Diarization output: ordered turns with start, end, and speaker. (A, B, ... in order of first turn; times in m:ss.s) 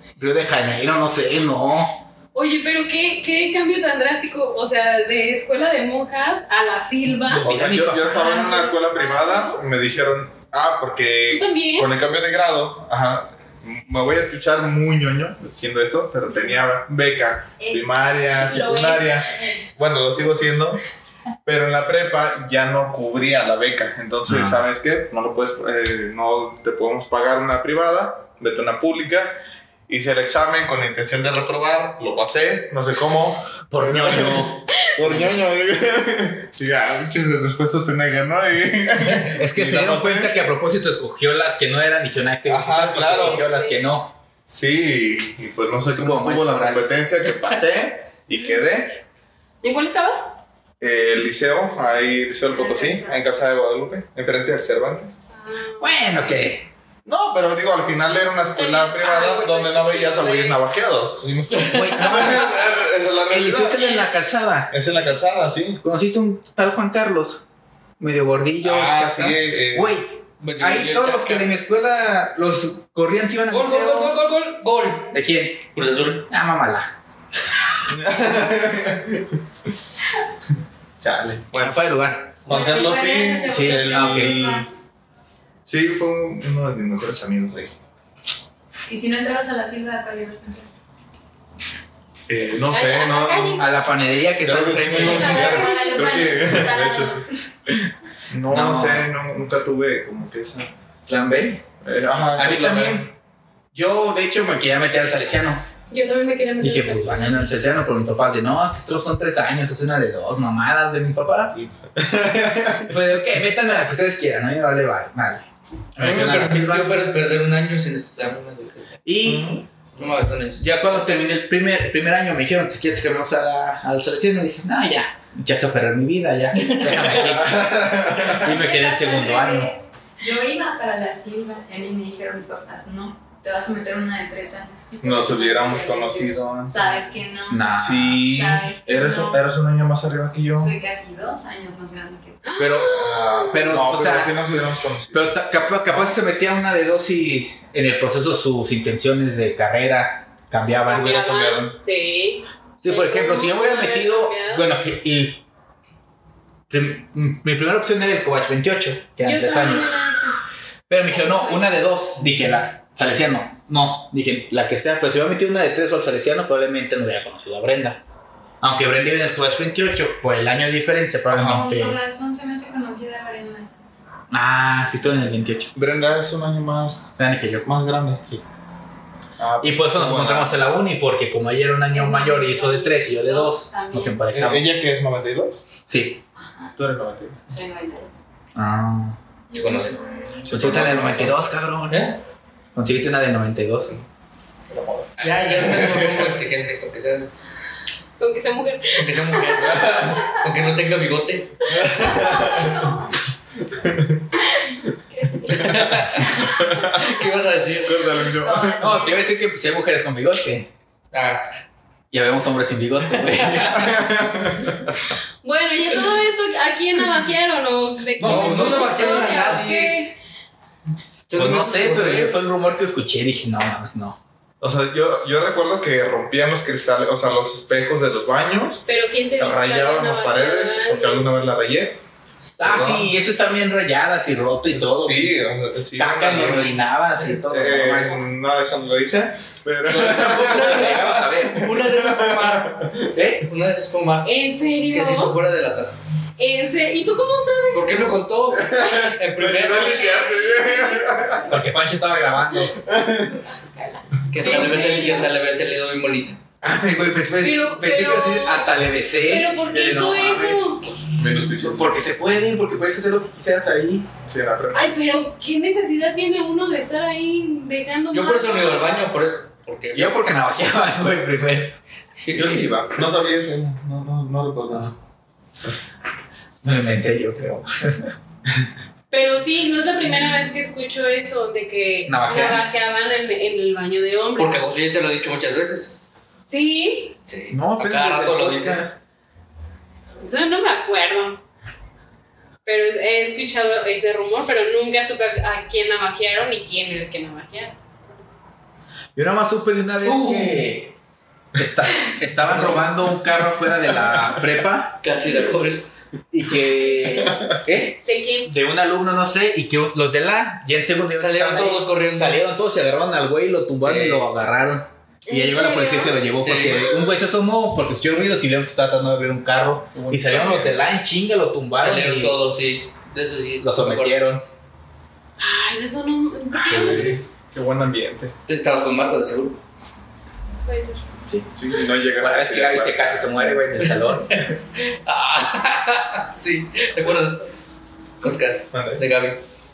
0:00.2-0:02.0 A
0:02.4-0:07.5 B
0:07.1-0:08.7 A
0:07.4-0:20.8 C
0:08.8-0:09.6 B
0:11.3-0:11.9 B
0:17.6-0:19.8 D
0:18.4-0:19.2 B
0:21.4-0:29.4 C
0:24.3-0:24.6 A
0:29.9-0:40.4 C
0:33.7-0:35.3 A
0:39.4-0:44.1 A
0:42.4-0:43.5 C
0:43.1-0:43.8 B
0:44.5-0:49.0 C
0:45.9-0:47.0 A
0:49.6-0:50.3 B
0:50.8-0:55.1 C
0:52.4-0:53.2 D
0:55.4-0:56.3 B
0:55.8-0:56.7 A
0:57.1-1:04.0 C
0:58.6-1:00.6 B
1:01.5-1:02.4 E
1:01.7-1:02.7 A
1:03.3-1:04.7 A
1:04.7-1:05.8 C
1:05.8-1:07.4 A
1:08.0-1:14.2 A
1:08.6-1:09.9 C
1:10.4-1:11.5 E
1:13.5-1:15.2 E
1:15.1-1:15.7 A
1:15.7-1:16.3 E
1:16.3-1:16.9 A
1:17.9-1:19.4 C
1:21.0-1:21.8 C
1:21.6-1:22.3 A
1:22.4-1:24.7 C
1:22.5-1:24.7 D
1:23.5-1:24.4 A
1:25.6-1:27.7 C
1:28.9-1:30.7 D
1:32.3-1:33.7 C
1:32.7-1:33.7 B
1:33.6-1:35.6 A
1:34.4-1:37.2 C
1:34.9-1:36.2 B
1:35.4-1:37.3 D
1:38.3-1:40.7 C
1:38.5-1:39.1 A
1:41.1-1:41.6 A
1:41.8-1:43.1 C
1:42.4-1:43.1 A
1:43.7-1:45.6 A
1:45.9-1:47.4 B
1:46.6-1:51.7 A
1:52.0-1:52.9 C
1:52.9-1:57.0 A
1:56.0-1:59.0 E
1:59.0-1:59.6 A
1:59.2-1:59.6 C
2:00.0-2:01.0 E
2:00.6-2:09.7 A
2:06.5-2:07.4 E
2:07.2-2:08.5 C
2:08.3-2:15.0 D
2:15.0-2:16.4 B
2:15.0-2:16.8 C
2:16.6-2:19.4 D
2:17.5-2:18.2 A
2:17.8-2:20.7 C
2:20.5-2:22.4 D
2:22.4-2:23.7 B
2:22.6-2:24.4 A
2:23.5-2:25.3 C
2:25.1-2:31.7 A
2:30.9-2:34.6 B
2:32.8-2:35.4 A
2:36.7-2:39.9 A
2:39.2-2:40.4 B
2:40.9-2:48.0 A
2:41.1-2:41.7 B
2:48.6-2:52.0 A
2:51.3-2:51.6 C
2:51.4-2:53.7 D
2:54.3-2:55.7 A
2:55.8-2:58.2 C
2:57.2-2:57.7 A
2:59.4-3:00.6 C
2:59.6-3:04.7 A
3:01.9-3:02.9 D
3:02.8-3:04.1 B
3:04.3-3:05.6 C
3:05.9-3:06.2 A
3:06.4-3:06.7 D
3:06.8-3:07.4 C
3:07.5-3:08.2 D
3:08.6-3:09.2 A
3:09.5-3:10.0 E
3:10.4-3:11.4 C
3:10.5-3:12.0 A
3:10.7-3:11.0 E
3:11.9-3:12.2 E
3:12.8-3:14.0 A
3:14.7-3:16.3 C
3:15.2-3:17.3 E
3:18.2-3:19.9 B
3:19.0-3:21.6 E
3:19.6-3:20.3 C
3:21.7-3:23.0 C
3:21.9-3:23.1 D
3:23.6-3:24.3 C
3:25.1-3:25.9 B
3:25.5-3:28.2 E
3:25.5-3:27.0 C
3:27.8-3:29.0 C
3:28.2-3:29.2 D
3:28.8-3:30.7 A
3:31.1-3:31.5 E
3:32.1-3:34.0 A
3:33.2-3:33.9 E
3:33.5-3:34.9 C
3:35.4-3:40.2 B
3:38.2-3:39.5 A
3:38.2-3:40.0 E
3:41.3-3:42.4 E
3:41.3-3:44.2 A
3:44.6-3:48.8 C
3:48.9-3:51.3 B
3:49.4-3:52.0 C
3:52.6-3:55.4 A
3:52.6-3:53.2 C
3:54.7-3:56.7 C
3:56.0-3:58.2 A
3:57.5-4:03.1 C
3:59.9-4:04.3 E
4:00.4-4:01.6 A
4:03.1-4:03.4 A
4:04.2-4:05.4 B
4:04.9-4:06.0 E
4:06.4-4:08.1 B
4:07.7-4:10.1 E
4:08.5-4:11.6 C
4:09.7-4:11.4 B
4:11.5-4:12.8 A
4:12.8-4:13.4 C
4:13.2-4:15.3 B
4:14.3-4:16.4 E
4:16.6-4:20.9 A
4:17.4-4:20.8 B
4:21.2-4:22.0 C
4:21.6-4:24.1 A
4:24.3-4:25.0 C
4:24.7-4:29.1 B
4:28.1-4:30.2 E
4:30.0-4:31.8 A
4:32.2-4:32.8 E
4:32.4-4:34.9 C
4:36.6-4:38.1 A
4:39.1-4:44.7 B
4:42.1-4:42.6 A
4:44.4-4:46.0 E
4:46.5-4:47.1 B
4:47.2-4:48.8 E
4:47.5-4:49.0 A
4:50.2-4:51.4 B
4:52.6-4:57.8 B
4:59.1-5:00.9 A
5:00.0-5:00.6 E
5:01.6-5:05.0 A
5:02.4-5:03.0 E
5:04.0-5:04.5 C
5:05.0-5:05.9 E
5:06.3-5:22.4 A
5:06.8-5:07.4 B
5:08.0-5:08.5 B
5:11.2-5:12.4 E
5:13.8-5:14.3 E
5:15.3-5:16.2 B
5:16.4-5:16.9 E
5:19.9-5:20.9 C
5:21.7-5:24.2 E
5:23.6-5:24.4 A
5:25.4-5:27.2 B
5:26.5-5:27.2 A
5:26.6-5:28.3 C
5:28.5-5:29.6 E
5:30.6-5:31.0 B
5:31.6-5:33.8 C
5:32.1-5:34.4 A
5:34.3-5:37.5 E
5:38.2-5:39.4 E
5:38.7-5:39.1 C